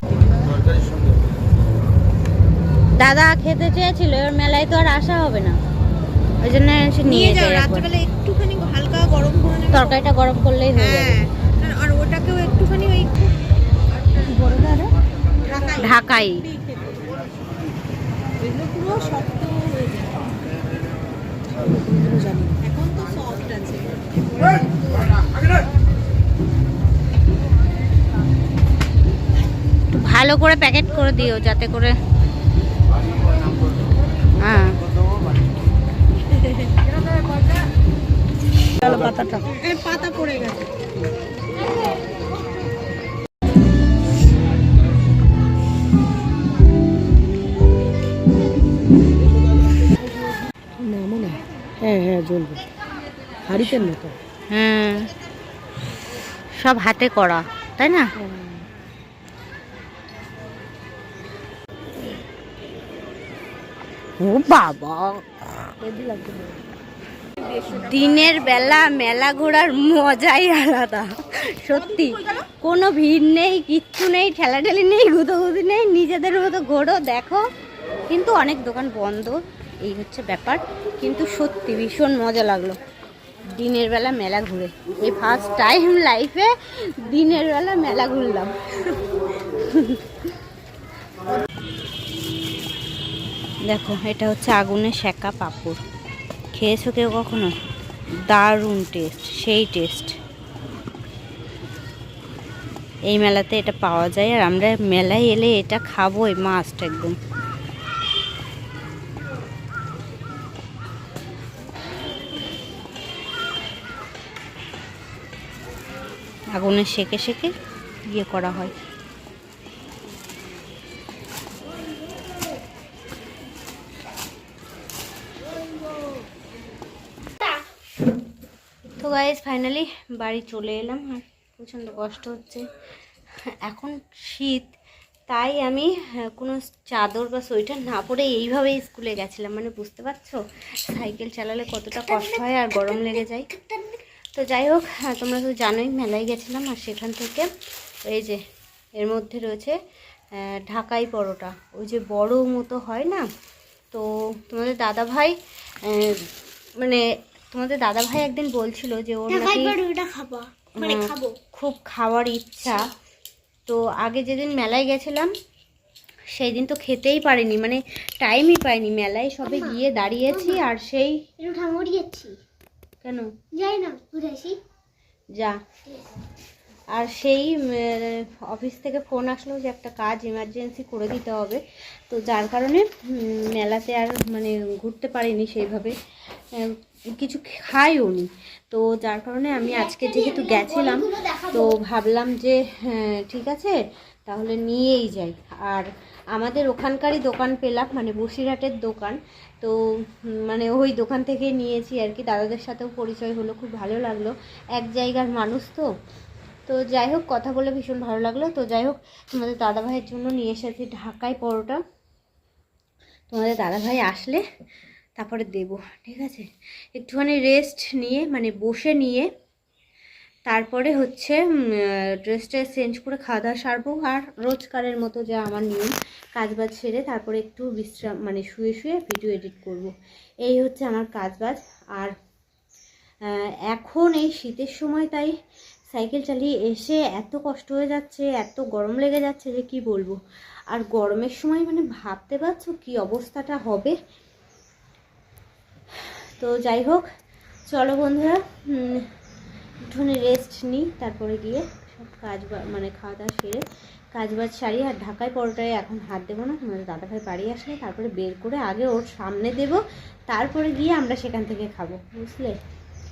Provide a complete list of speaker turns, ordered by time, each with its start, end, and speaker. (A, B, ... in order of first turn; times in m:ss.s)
0:03.0-0:05.6 A
0:06.4-0:07.9 A
0:07.0-0:09.9 B
0:09.7-0:11.2 A
0:10.8-0:13.3 B
0:14.3-0:14.9 C
0:15.5-0:15.9 B
0:15.8-0:16.4 A
0:18.4-0:20.3 B
0:21.5-0:22.6 C
0:22.6-0:24.6 B
0:29.9-0:31.9 A
0:34.4-0:34.7 A
0:38.8-0:39.9 C
0:39.8-0:40.5 B
0:50.8-0:52.6 C
0:53.5-0:54.2 C
0:54.5-0:55.0 A
0:56.6-0:58.1 A
0:58.2-0:58.6 C
1:04.2-1:05.2 A
1:05.9-1:06.4 C
1:07.4-1:08.0 B
1:07.7-1:17.4 A
1:11.9-1:12.5 B
1:18.1-1:22.8 A
1:23.6-1:26.5 A
1:27.0-1:28.6 A
1:29.7-1:30.0 A
1:33.7-1:35.8 A
1:36.6-1:37.5 A
1:38.3-1:40.1 A
1:43.1-1:47.2 A
1:56.6-1:57.5 A
1:58.1-1:58.7 A
2:09.0-2:12.7 A
2:13.7-2:14.7 A
2:15.3-2:23.5 A
2:22.1-2:22.4 D
2:23.5-2:24.0 D
2:24.4-2:27.5 A
2:28.1-2:28.4 A
2:29.0-2:29.8 A
2:30.3-2:33.2 A
2:33.9-2:36.3 A
2:37.5-2:39.8 A
2:39.3-2:41.4 D
2:40.8-2:42.9 A
2:43.7-2:45.3 A
2:46.4-2:51.2 A
2:49.5-2:49.8 D
2:50.3-2:50.6 D
2:51.4-2:52.4 D
2:53.0-2:53.3 A
2:53.5-2:54.6 D
2:57.0-3:06.0 A
3:06.6-3:13.8 A
3:09.6-3:11.7 D
3:14.3-3:19.8 A
3:20.5-3:25.8 A
3:26.7-3:31.8 A
3:33.3-3:34.4 A
3:35.2-3:39.3 A
3:40.5-3:49.9 A
3:50.4-3:52.1 A
3:53.7-3:55.3 A
3:55.9-4:00.2 A
4:00.7-4:04.0 A
4:06.4-4:07.0 A
4:07.7-4:09.0 A
4:09.9-4:13.6 A
4:14.2-4:22.6 A